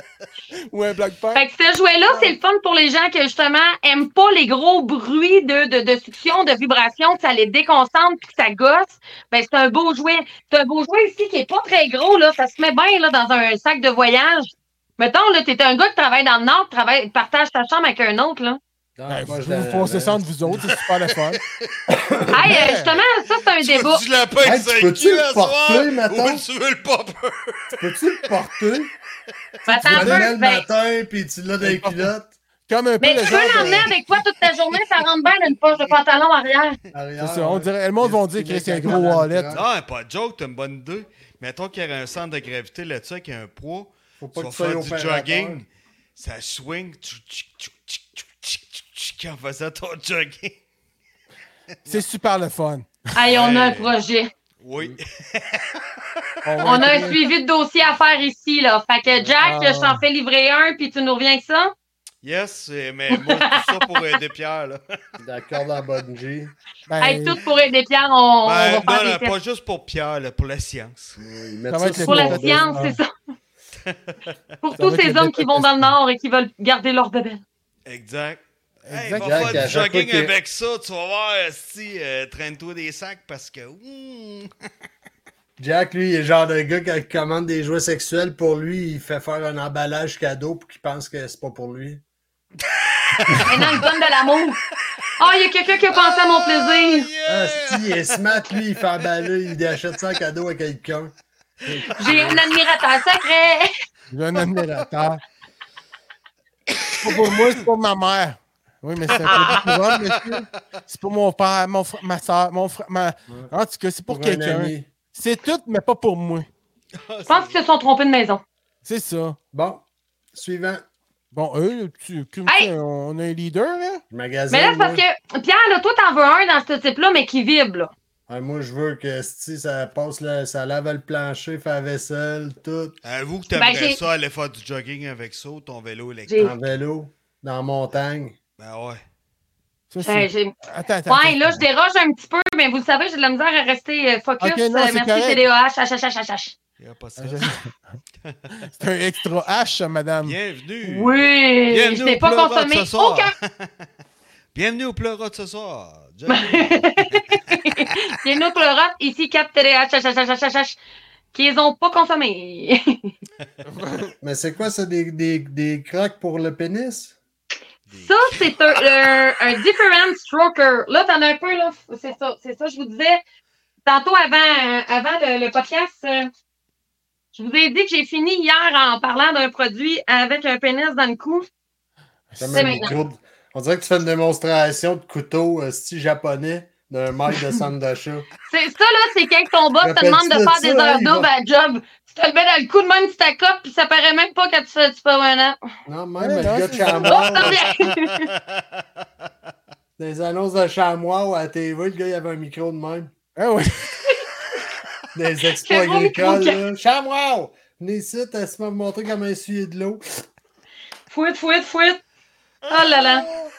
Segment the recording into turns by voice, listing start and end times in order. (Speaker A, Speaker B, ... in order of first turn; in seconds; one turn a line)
Speaker A: 0.7-1.4
Speaker B: 1.3-18.6
Speaker C: 18.9-20.6
Speaker A: 19.1-21.4
Speaker C: 21.9-22.5
Speaker B: 22.3-24.0
Speaker A: 22.4-23.0
Speaker D: 23.6-27.8
Speaker C: 24.4-26.4
Speaker C: 27.8-28.9
Speaker B: 29.7-30.6
Speaker A: 29.7-30.2
Speaker C: 29.8-32.3
Speaker A: 31.6-32.1
Speaker A: 32.7-33.9
Speaker B: 33.0-36.8
Speaker D: 34.4-35.1
Speaker C: 36.9-39.6
Speaker A: 37.2-39.5
Speaker D: 39.5-50.6
Speaker C: 44.2-45.6
Speaker A: 51.9-52.9
Speaker B: 53.1-54.3
Speaker D: 53.2-54.0
Speaker D: 54.6-55.8
Speaker A: 56.4-57.2
Speaker B: 56.6-61.7
Speaker D: 62.2-64.8
Speaker B: 63.1-64.0
Speaker C: 65.2-66.5
Speaker A: 66.9-67.4
Speaker B: 67.0-69.3
Speaker D: 68.4-71.2
Speaker C: 71.2-72.8
Speaker A: 71.7-73.0
Speaker B: 72.0-73.1
Speaker D: 73.8-74.2
Speaker B: 74.6-77.4
Speaker A: 74.8-75.9
Speaker D: 77.8-84.5
Speaker A: 78.9-79.8
Speaker C: 79.2-80.3
Speaker C: 85.6-92.0
Speaker D: 92.7-93.8
Speaker B: 93.4-94.6
Speaker B: 95.2-97.1
Speaker D: 95.9-98.6
Speaker C: 97.2-101.1
Speaker D: 101.7-102.5
Speaker C: 101.7-102.4
Speaker B: 102.0-103.7
Speaker A: 104.1-105.2
Speaker A: 107.0-116.5
Speaker D: 109.1-110.4
Speaker B: 109.3-109.6
Speaker C: 114.1-114.9
Speaker D: 116.9-117.6
Speaker B: 117.3-118.4
Speaker A: 118.8-119.4
Speaker C: 119.5-120.8
Speaker A: 121.3-124.0
Speaker C: 124.1-125.0
Speaker B: 124.5-127.9
Speaker C: 128.3-132.9
Speaker D: 133.0-136.6
Speaker B: 133.5-134.0
Speaker B: 136.3-136.5
Speaker C: 136.4-138.4
Speaker D: 138.6-139.0
Speaker A: 139.9-141.6
Speaker B: 140.0-140.5
Speaker B: 141.1-146.5
Speaker A: 144.4-145.4
Speaker D: 146.8-147.5
Speaker A: 147.2-147.8
Speaker A: 148.6-150.3
Speaker D: 150.2-153.8
Speaker B: 150.8-153.3
Speaker D: 154.5-158.0
Speaker B: 156.3-160.8
Speaker B: 161.3-163.1
Speaker A: 163.7-164.1
Speaker C: 164.2-167.2
Speaker D: 167.9-168.8
Speaker B: 167.9-173.2
Speaker B: 173.8-176.3
Speaker B: 177.3-181.4
Speaker A: 182.3-182.9
Speaker C: 182.4-188.3
Speaker B: 182.5-182.9
Speaker B: 188.5-195.6
Speaker C: 189.8-191.3
Speaker C: 195.9-197.6
Speaker A: 196.2-197.2
Speaker B: 197.0-198.3
Speaker D: 197.3-198.8
Speaker C: 200.0-203.1
Speaker A: 203.4-203.9
Speaker C: 205.1-210.0
Speaker B: 205.6-206.6
Speaker B: 211.1-212.0
Speaker B: 212.7-213.3